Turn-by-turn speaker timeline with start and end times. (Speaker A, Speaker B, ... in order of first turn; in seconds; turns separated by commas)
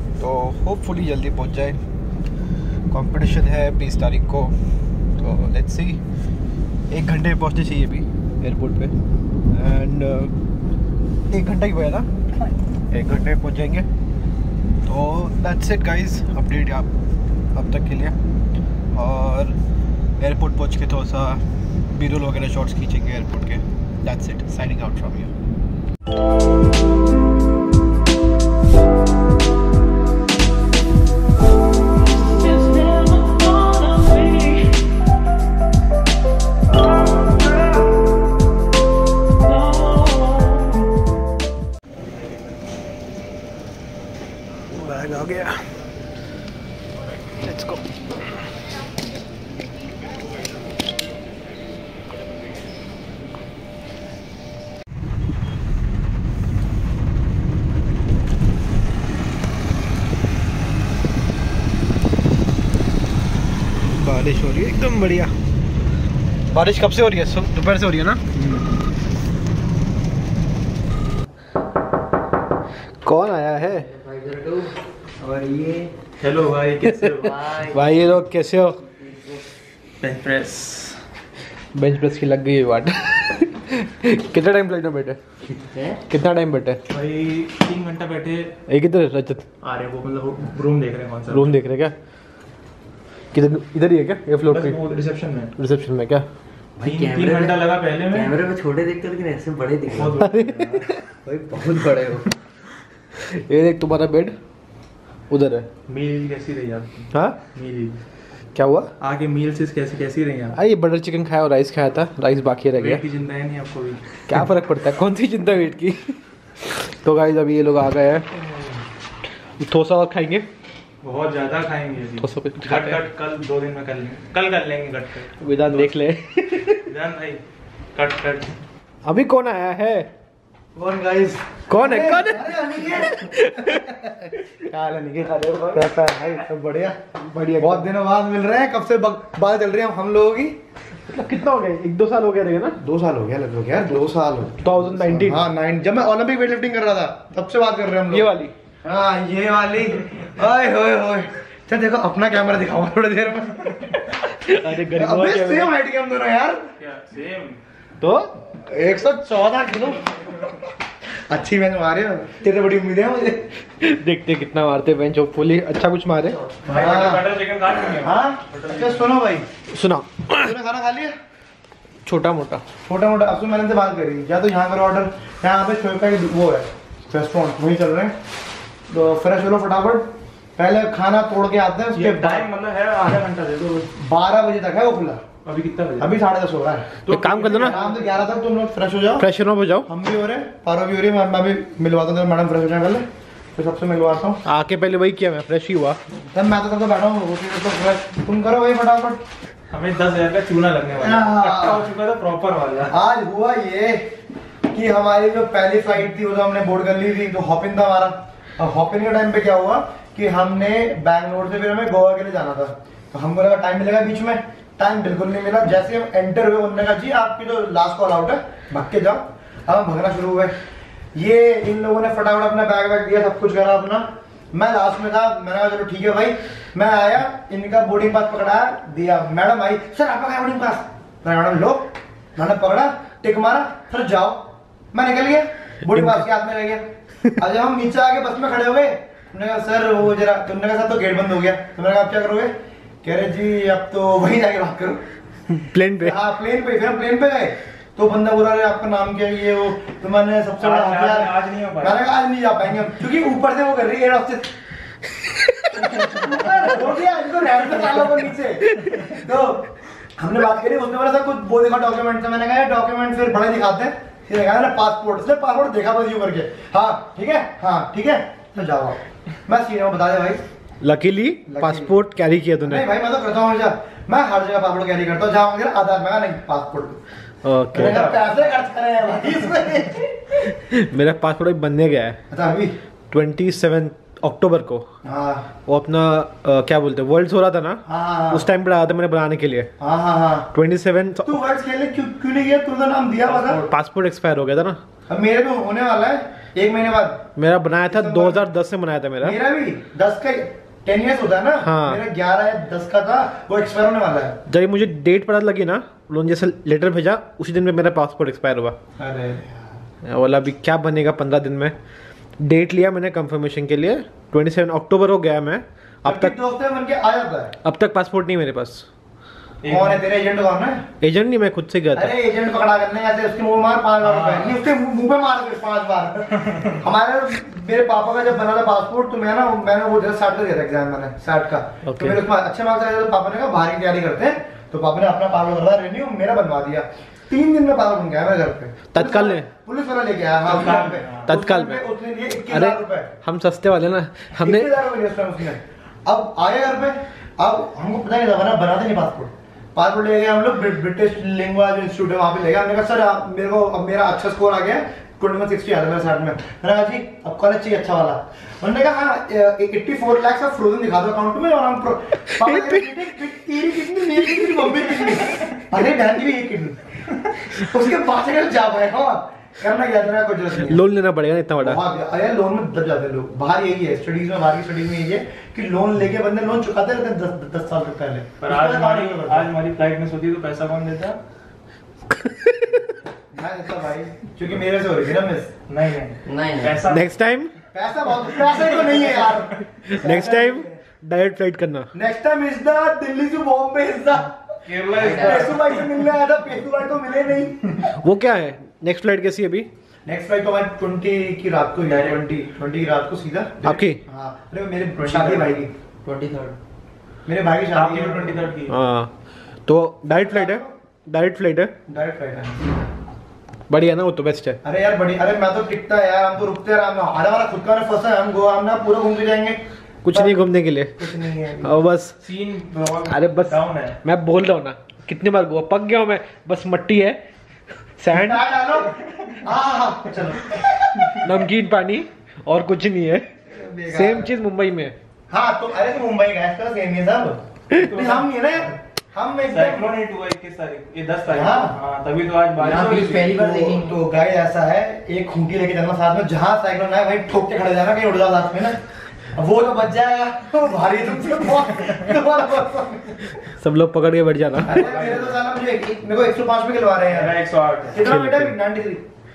Speaker A: 0.2-1.8, Speaker A: 2.9-4.5, Speaker A: 5.2-6.0, Speaker A: 6.9-8.9, Speaker A: 9.5-10.3, Speaker A: 11.3-12.1, Speaker A: 12.9-13.9, Speaker A: 14.8-16.9, Speaker A: 17.5-18.1, Speaker A: 18.9-19.6, Speaker A: 20.2-25.3, Speaker A: 32.2-34.8, Speaker A: 39.6-40.5, Speaker A: 44.7-45.6, Speaker A: 47.4-47.8, Speaker A: 63.9-65.3, Speaker A: 66.5-68.2, Speaker B: 68.3-68.8, Speaker A: 73.0-73.9, Speaker C: 73.8-75.9, Speaker B: 76.2-77.4, Speaker C: 77.2-77.8, Speaker A: 77.6-78.8, Speaker C: 79.0-79.4, Speaker B: 80.0-81.0, Speaker A: 81.7-85.2, Speaker C: 85.5-86.0, Speaker A: 86.1-86.8, Speaker B: 86.9-88.5, Speaker A: 88.7-89.4, Speaker B: 89.6-91.5, Speaker A: 91.3-91.9, Speaker A: 93.3-94.8, Speaker B: 94.5-95.5, Speaker A: 95.6-96.2, Speaker C: 96.8-100.3, Speaker B: 96.8-98.4, Speaker B: 99.9-100.8, Speaker A: 100.2-101.0, Speaker C: 101.2-102.3, Speaker A: 103.1-104.4, Speaker A: 105.3-105.7, Speaker B: 105.9-108.0, Speaker A: 108.5-108.9, Speaker B: 109.0-110.6, Speaker A: 110.5-113.0, Speaker B: 112.7-114.2, Speaker A: 114.3-118.3, Speaker A: 119.6-120.5, Speaker B: 121.0-125.3, Speaker A: 122.2-123.0, Speaker A: 125.4-126.8, Speaker B: 126.8-127.4, Speaker B: 127.9-128.6, Speaker A: 129.0-130.1, Speaker D: 130.8-137.0, Speaker A: 131.7-134.0, Speaker A: 137.1-137.9, Speaker D: 137.6-140.6, Speaker A: 141.1-142.8, Speaker D: 142.8-148.3, Speaker A: 144.6-145.4, Speaker A: 148.1-148.5, Speaker D: 148.8-156.7, Speaker A: 154.4-155.7, Speaker B: 156.8-157.6, Speaker A: 158.0-158.3, Speaker D: 158.6-160.0, Speaker D: 161.3-163.4, Speaker A: 163.8-166.4, Speaker B: 166.6-169.1, Speaker D: 166.7-167.2, Speaker D: 168.0-169.4, Speaker A: 169.7-170.5, Speaker D: 170.3-171.1, Speaker A: 172.0-172.6, Speaker D: 172.8-178.1, Speaker D: 178.9-182.5, Speaker B: 181.9-183.9, Speaker D: 184.0-185.2, Speaker B: 185.4-186.2, Speaker D: 186.0-186.9, Speaker B: 187.0-188.2, Speaker A: 187.1-187.8, Speaker D: 187.6-189.2, Speaker A: 189.2-189.9, Speaker D: 189.8-194.4, Speaker A: 194.4-196.0, Speaker D: 196.3-199.2, Speaker B: 199.7-202.9, Speaker D: 201.0-201.8, Speaker D: 202.9-204.0, Speaker D: 204.7-220.5, Speaker D: 221.1-236.8, Speaker A: 235.9-236.2, Speaker D: 237.4-242.5, Speaker D: 243.0-245.0, Speaker A: 245.5-246.2, Speaker D: 246.0-254.5, Speaker B: 250.6-252.0, Speaker A: 255.3-255.8, Speaker D: 255.8-270.4, Speaker A: 270.8-272.8, Speaker D: 271.5-271.9, Speaker D: 272.6-277.0, Speaker A: 277.4-278.0, Speaker D: 277.7-280.3, Speaker B: 277.8-278.3, Speaker A: 280.6-282.2, Speaker D: 282.3-282.7, Speaker A: 283.1-284.8, Speaker D: 285.0-285.4, Speaker A: 285.7-289.7, Speaker D: 287.9-288.4, Speaker D: 289.8-290.5, Speaker A: 290.5-291.3, Speaker D: 291.2-293.6, Speaker A: 293.5-294.8, Speaker D: 295.1-297.2, Speaker A: 297.4-299.4, Speaker D: 297.8-298.4, Speaker D: 299.2-304.4, Speaker A: 301.6-302.0, Speaker A: 304.5-308.7, Speaker D: 309.0-309.5, Speaker A: 310.0-311.7, Speaker A: 312.4-316.3, Speaker D: 316.0-317.5, Speaker A: 317.6-318.8, Speaker B: 319.6-320.0, Speaker D: 319.7-320.8, Speaker A: 321.0-322.1, Speaker D: 321.9-343.1, Speaker B: 324.0-324.5, Speaker A: 331.9-332.2, Speaker A: 338.9-339.5, Speaker B: 340.4-341.3, Speaker A: 341.2-341.8, Speaker A: 342.5-344.7, Speaker D: 344.4-366.8, Speaker D: 367.4-370.8, Speaker A: 370.6-371.8, Speaker D: 371.6-379.5, Speaker B: 378.4-381.2, Speaker A: 382.1-382.9, Speaker D: 383.3-385.5, Speaker B: 385.7-387.1, Speaker C: 386.2-386.8, Speaker A: 386.9-387.5, Speaker D: 387.7-390.8, Speaker A: 389.8-391.9, Speaker D: 391.9-394.4, Speaker B: 394.6-395.7, Speaker C: 394.9-395.6, Speaker D: 394.9-397.8, Speaker A: 398.0-399.7, Speaker D: 400.1-405.7, Speaker B: 401.8-402.2, Speaker A: 403.6-404.0, Speaker B: 405.0-405.6, Speaker C: 406.0-406.6, Speaker D: 407.2-408.4, Speaker B: 407.7-408.7, Speaker A: 408.7-409.1, Speaker A: 409.6-411.7, Speaker D: 410.1-410.7, Speaker D: 411.9-412.6, Speaker A: 413.7-414.6, Speaker D: 414.6-419.6, Speaker A: 420.0-421.0, Speaker D: 420.1-420.4, Speaker D: 421.0-421.7, Speaker A: 421.6-422.1, Speaker B: 422.2-424.0, Speaker A: 423.1-427.2, Speaker A: 428.0-428.4, Speaker D: 428.1-431.3, Speaker A: 431.1-433.2, Speaker D: 433.5-434.3, Speaker A: 433.9-434.9, Speaker D: 435.3-439.9, Speaker B: 437.8-438.3, Speaker B: 439.5-443.3, Speaker D: 441.3-441.7, Speaker C: 442.6-444.0, Speaker D: 443.1-448.8, Speaker D: 449.3-453.3, Speaker A: 453.4-454.9, Speaker D: 454.6-457.3, Speaker B: 454.7-455.3, Speaker B: 457.1-458.0, Speaker D: 457.9-459.0, Speaker A: 458.0-458.5